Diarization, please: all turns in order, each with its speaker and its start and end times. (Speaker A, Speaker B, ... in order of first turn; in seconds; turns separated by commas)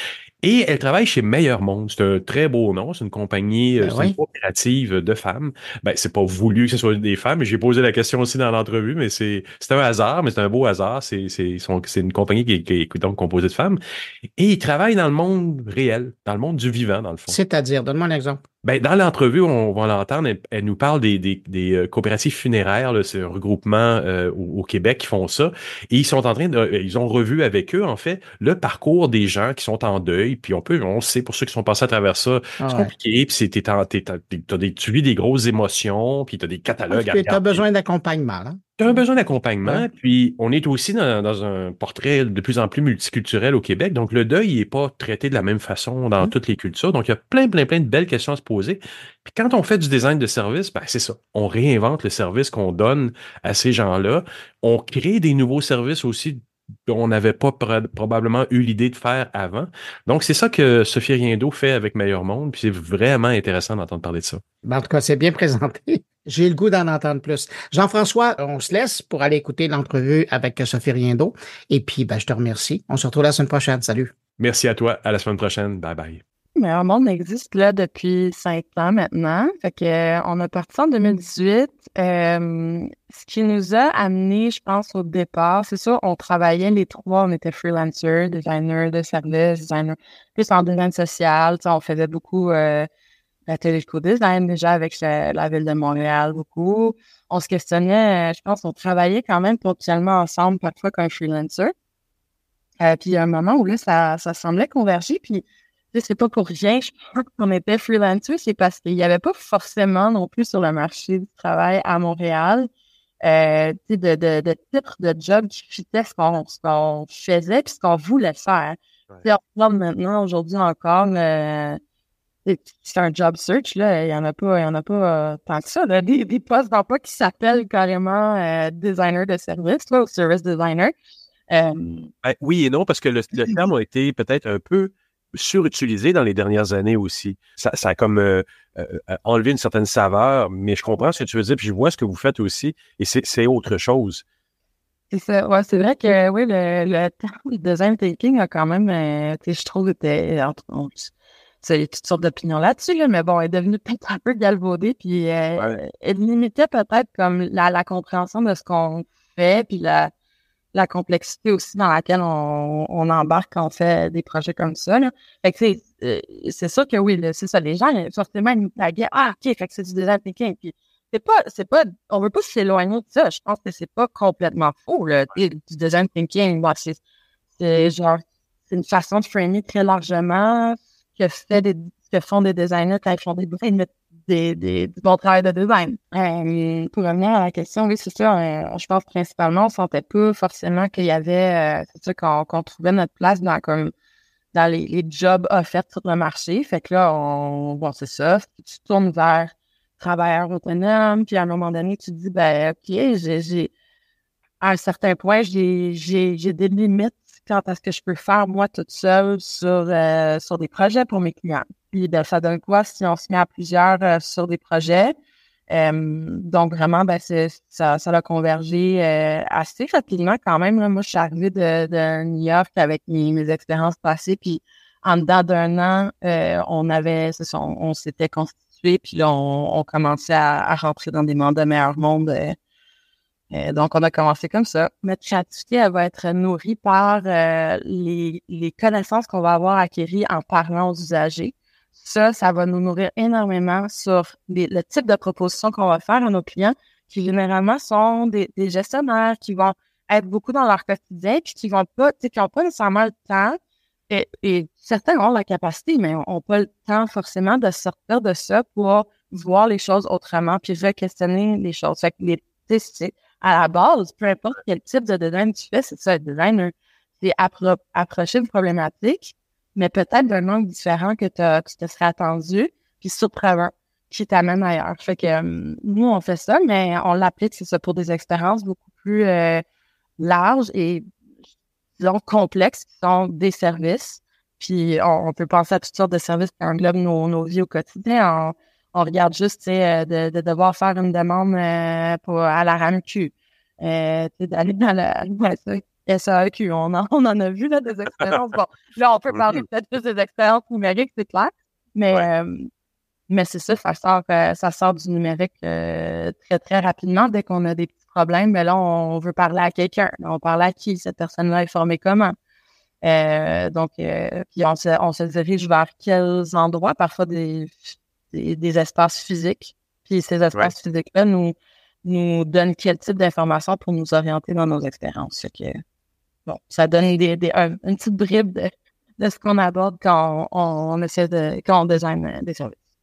Speaker A: 0.4-13.8, Speaker B: 3.8-4.1, Speaker A: 14.4-17.4, Speaker B: 17.3-18.4, Speaker A: 18.6-37.6, Speaker B: 32.6-32.9, Speaker B: 36.9-38.6, Speaker A: 38.8-64.4, Speaker B: 64.7-74.1, Speaker A: 74.4-76.2, Speaker C: 76.5-92.9, Speaker C: 93.5-101.7, Speaker C: 102.8-112.7, Speaker C: 113.2-121.8, Speaker C: 122.4-130.9, Speaker C: 131.5-132.1, Speaker A: 132.2-144.2, Speaker C: 145.1-160.1, Speaker C: 160.7-177.0, Speaker C: 177.6-193.9, Speaker C: 194.5-203.7, Speaker C: 204.6-215.1, Speaker C: 215.7-232.6, Speaker C: 233.5-253.6, Speaker C: 254.1-279.6, Speaker C: 280.2-281.1, Speaker C: 282.0-302.7, Speaker A: 299.3-299.6, Speaker C: 303.3-312.3, Speaker C: 313.0-325.8, Speaker C: 326.4-332.8